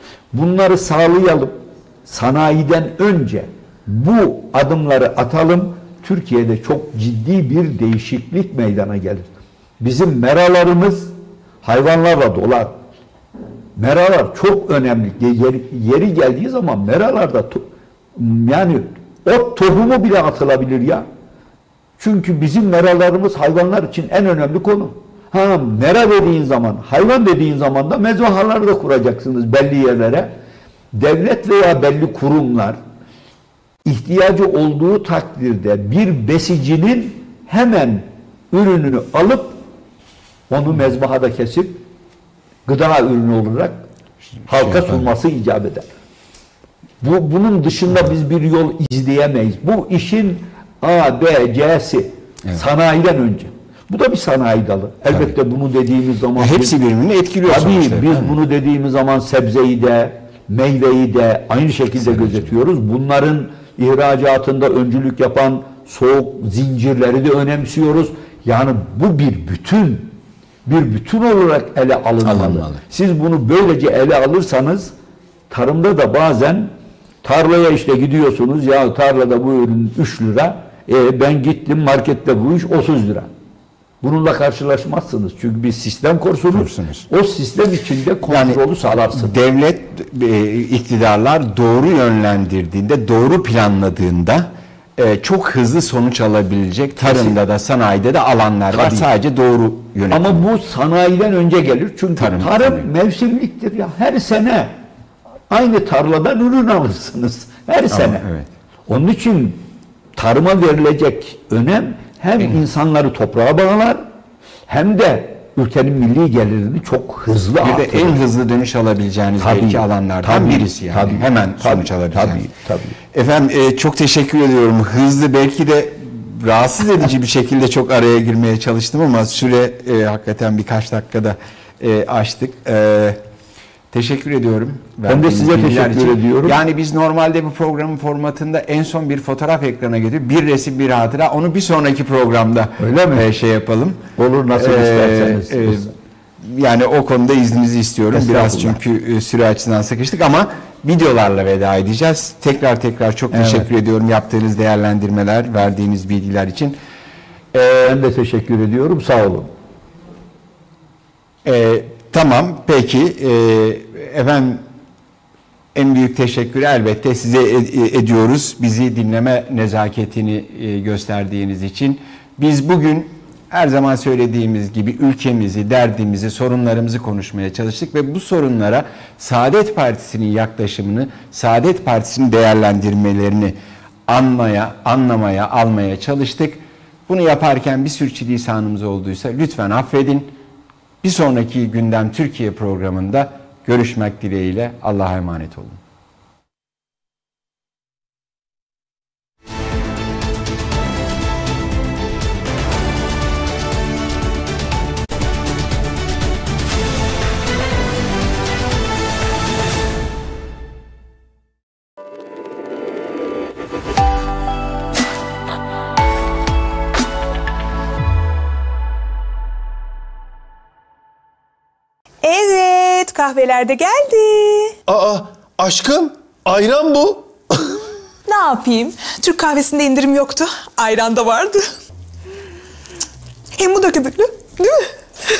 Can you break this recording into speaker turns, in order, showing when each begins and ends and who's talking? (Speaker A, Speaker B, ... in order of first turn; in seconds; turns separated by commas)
Speaker A: 0.3-9.3, Speaker A: 9.8-11.1, Speaker A: 11.6-12.7, Speaker A: 13.8-17.6, Speaker A: 18.2-21.1, Speaker A: 22.0-30.3, Speaker A: 30.9-32.8, Speaker A: 33.9-39.6, Speaker A: 40.5-41.8, Speaker A: 42.7-43.8, Speaker B: 44.5-45.1, Speaker A: 44.5-45.9, Speaker A: 47.0-56.8, Speaker B: 55.1-55.3, Speaker B: 56.4-58.4, Speaker A: 57.5-70.1, Speaker B: 62.0-62.5, Speaker A: 70.7-74.9, Speaker B: 72.2-72.8, Speaker A: 75.5-76.7, Speaker A: 77.2-83.3, Speaker A: 84.0-89.4, Speaker B: 86.5-87.1, Speaker B: 88.3-100.5, Speaker A: 97.0-97.4, Speaker A: 98.7-99.1, Speaker A: 100.1-104.7, Speaker B: 102.2-102.9, Speaker A: 105.5-108.2, Speaker B: 107.9-108.5, Speaker A: 108.9-109.6, Speaker A: 110.2-114.0, Speaker A: 114.7-118.2, Speaker B: 117.6-122.5, Speaker A: 119.4-123.0, Speaker B: 123.1-133.2, Speaker B: 133.9-144.0, Speaker A: 135.1-136.6, Speaker A: 142.8-143.3, Speaker A: 144.2-145.9, Speaker B: 144.5-145.9, Speaker B: 146.4-156.8, Speaker A: 148.1-148.8, Speaker A: 153.3-153.7, Speaker A: 157.5-159.5, Speaker B: 161.4-164.6, Speaker B: 165.7-183.6, Speaker B: 184.1-190.4, Speaker B: 191.0-195.8, Speaker C: 222.2-224.8, Speaker D: 224.9-227.3, Speaker C: 228.3-231.7, Speaker C: 233.6-234.9